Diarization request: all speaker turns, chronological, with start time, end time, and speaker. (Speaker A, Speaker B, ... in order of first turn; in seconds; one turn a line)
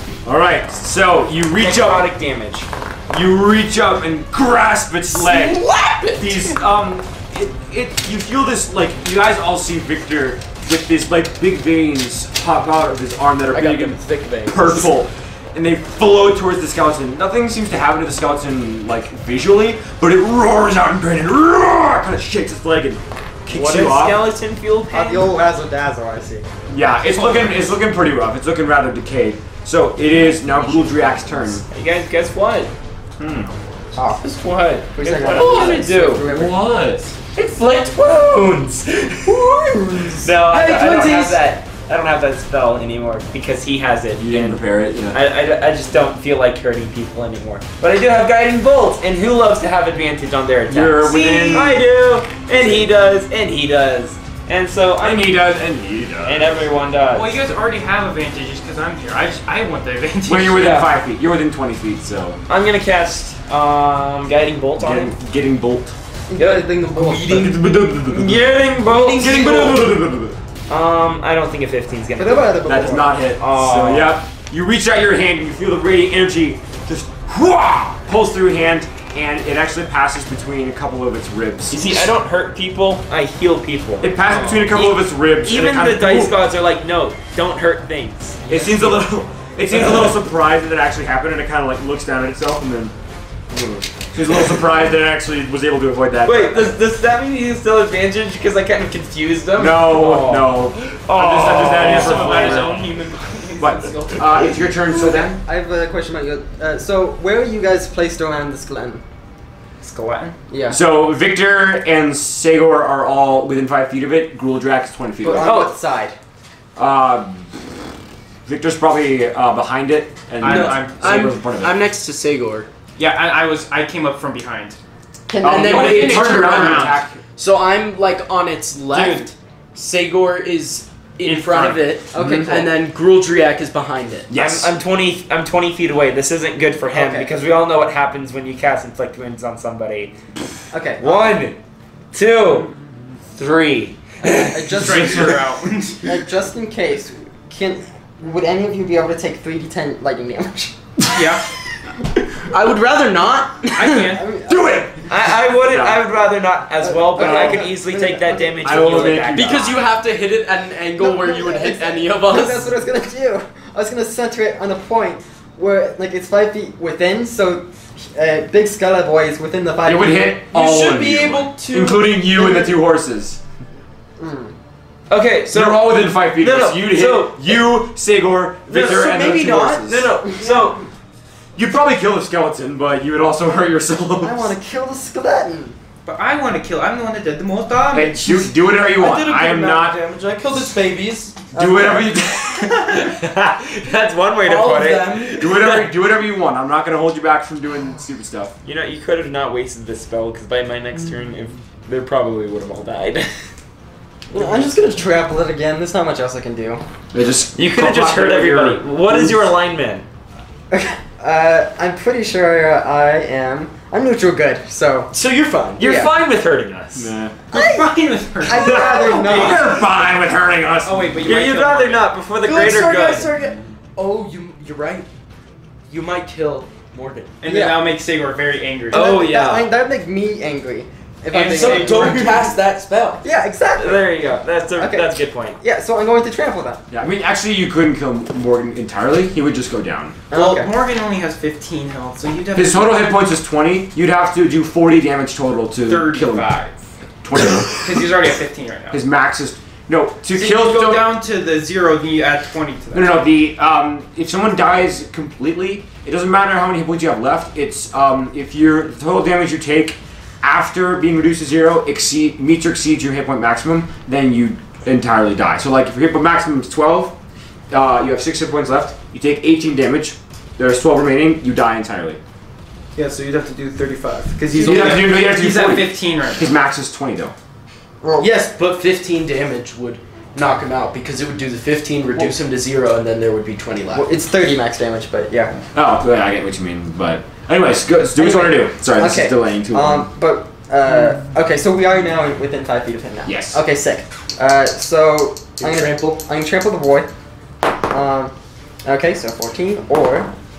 Speaker A: 0.2-2.1
Speaker B: 1.6-2.7
Speaker A: 3.1-24.3
Speaker C: 5.1-6.4
Speaker C: 13.5-14.9
Speaker B: 23.5-25.2
Speaker D: 24.9-26.5
Speaker A: 26.7-31.6
Speaker E: 27.1-27.7
Speaker B: 31.7-32.7
Speaker A: 33.2-33.5
Speaker D: 34.0-34.2
Speaker B: 34.2-36.3
Speaker D: 34.9-36.8
Speaker A: 35.2-37.1
Speaker B: 37.3-39.4
Speaker D: 39.8-40.2
Speaker B: 40.2-55.4
Speaker C: 40.5-41.4
Speaker A: 44.2-45.2
Speaker A: 50.7-51.8
Speaker E: 51.0-51.8
Speaker A: 55.0-56.7
Speaker B: 56.2-57.4
Speaker E: 57.1-60.9
Speaker A: 60.2-62.4
Speaker B: 60.6-60.9
Speaker B: 62.5-65.1
Speaker A: 64.8-65.9
Speaker D: 66.3-67.6
Speaker B: 66.3-66.7
Speaker A: 66.9-70.4
Speaker B: 68.0-70.0
Speaker C: 69.3-69.6
Speaker B: 70.7-72.8
Speaker D: 72.2-73.1
Speaker A: 72.7-82.1
Speaker B: 73.3-74.2
Speaker B: 81.7-88.5
Speaker A: 84.0-86.4
Speaker A: 88.5-92.9
Speaker E: 88.5-88.9
Speaker A: 93.5-96.8
Speaker B: 96.2-102.7
Speaker A: 99.5-102.8
Speaker E: 101.6-103.9
Speaker C: 101.8-104.4
Speaker A: 103.6-105.4
Speaker D: 104.8-109.0
Speaker E: 109.8-110.3
Speaker D: 110.5-110.8
Speaker A: 110.7-115.7
Speaker D: 115.2-116.2
Speaker B: 115.4-115.7
Speaker A: 116.8-117.5
Speaker A: 118.5-121.8
Speaker E: 120.4-121.3
Speaker C: 120.4-122.7
Speaker E: 123.0-124.8
Speaker D: 125.3-126.1
Speaker C: 125.4-134.3
Speaker A: 125.4-127.2
Speaker E: 125.6-127.0
Speaker B: 128.9-129.3
Speaker E: 131.2-131.9
Speaker D: 132.1-132.8
Speaker A: 132.2-132.5
Speaker A: 134.3-134.7
Speaker B: 134.3-140.1
Speaker D: 136.9-137.3
Speaker D: 140.7-141.4
Speaker B: 141.0-141.6
Speaker B: 142.1-142.7
Speaker B: 143.4-144.9
Speaker D: 144.5-145.3
Speaker E: 144.6-146.1
Speaker A: 144.8-145.4
Speaker D: 146.0-150.7
Speaker E: 151.1-151.4
Speaker C: 152.5-154.1
Speaker E: 153.7-154.3
Speaker D: 153.9-154.8
Speaker A: 154.5-156.1
Speaker B: 155.1-159.8
Speaker D: 156.8-159.3
Speaker A: 157.2-157.7
Speaker A: 158.6-159.8
Speaker C: 159.3-162.7
Speaker D: 161.0-170.4
Speaker A: 169.8-173.4
Speaker C: 170.5-172.7
Speaker D: 174.2-174.5
Speaker B: 175.1-177.8
Speaker A: 175.5-180.1
Speaker B: 178.7-180.8
Speaker C: 178.8-180.0
Speaker D: 180.4-180.7
Speaker A: 181.5-184.5
Speaker D: 184.2-185.8
Speaker E: 186.0-188.4
Speaker A: 187.9-190.0
Speaker C: 188.8-191.5
Speaker D: 191.5-192.1
Speaker A: 191.5-193.1
Speaker B: 192.8-195.8
Speaker C: 194.4-195.5
Speaker A: 195.3-198.5
Speaker B: 198.6-203.3
Speaker D: 204.3-206.8
Speaker A: 207.1-209.5
Speaker B: 207.6-210.1
Speaker D: 210.7-215.1
Speaker C: 215.1-216.0
Speaker B: 215.8-217.1
Speaker D: 215.8-216.1
Speaker A: 216.9-217.4
Speaker E: 217.5-219.8
Speaker D: 217.5-219.8
Speaker A: 218.5-221.3
Speaker E: 220.8-222.1
Speaker B: 221.2-223.3
Speaker C: 222.4-225.1
Speaker C: 225.9-227.3
Speaker E: 227.4-229.1
Speaker D: 227.4-227.9
Speaker B: 228.9-229.7
Speaker D: 228.9-232.4
Speaker C: 231.3-233.2
Speaker B: 231.3-232.4
Speaker D: 233.2-234.2
Speaker B: 233.8-235.6
Speaker D: 234.8-236.8
Speaker A: 236.9-240.2
Speaker D: 240.3-240.7
Speaker E: 240.3-243.2
Speaker A: 242.5-246.5
Speaker E: 245.8-246.7
Speaker A: 247.2-247.9
Speaker E: 247.7-249.0
Speaker A: 248.9-251.2
Speaker E: 250.3-253.3
Speaker A: 252.9-267.1
Speaker A: 267.7-272.2
Speaker E: 272.9-276.5
Speaker C: 274.5-275.0
Speaker A: 274.6-277.3
Speaker D: 278.0-278.3
Speaker C: 278.2-284.1
Speaker D: 283.9-285.6
Speaker A: 285.7-290.1
Speaker D: 288.1-297.1
Speaker A: 293.2-293.6
Speaker C: 295.6-296.2
Speaker D: 297.9-300.3